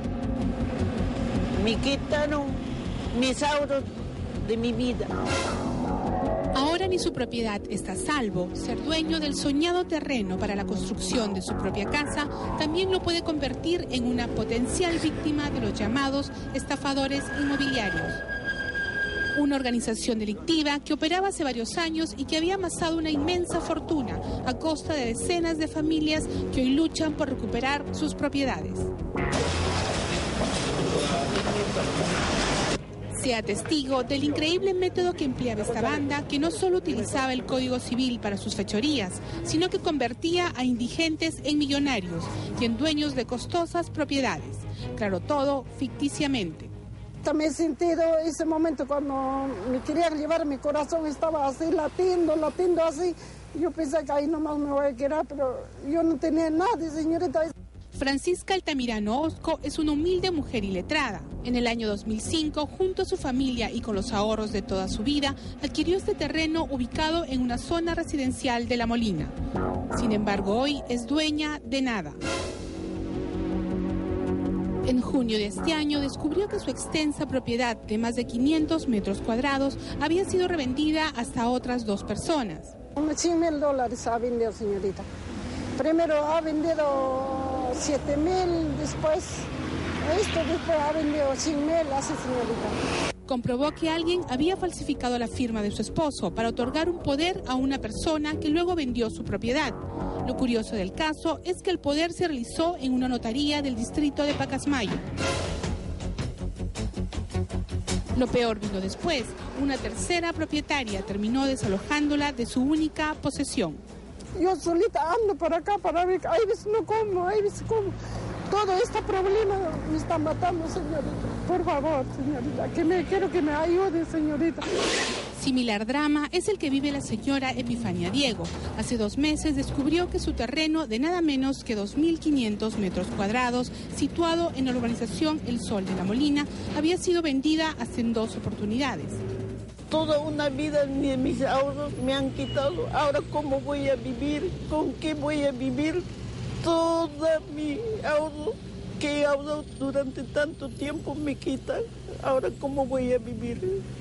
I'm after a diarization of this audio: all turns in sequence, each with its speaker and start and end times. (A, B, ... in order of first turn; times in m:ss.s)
0:01.6-0:02.6 A
0:03.1-0:03.9 A
0:04.4-0:05.1 A
0:06.5-0:18.2 B
0:19.4-0:28.9 B
0:33.2-0:46.7 B
0:47.2-0:57.5 C
0:57.9-1:09.3 B
1:09.9-1:12.2 B
1:14.8-1:22.8 B
1:23.0-1:25.1 C
1:25.8-1:29.5 C
1:30.0-1:32.8 C
1:33.3-1:45.0 B
1:48.2-1:53.8 B
1:54.4-1:58.0 C
1:58.5-2:04.6 C
2:05.4-2:19.2 B
2:19.9-2:26.0 A
2:26.6-2:33.8 A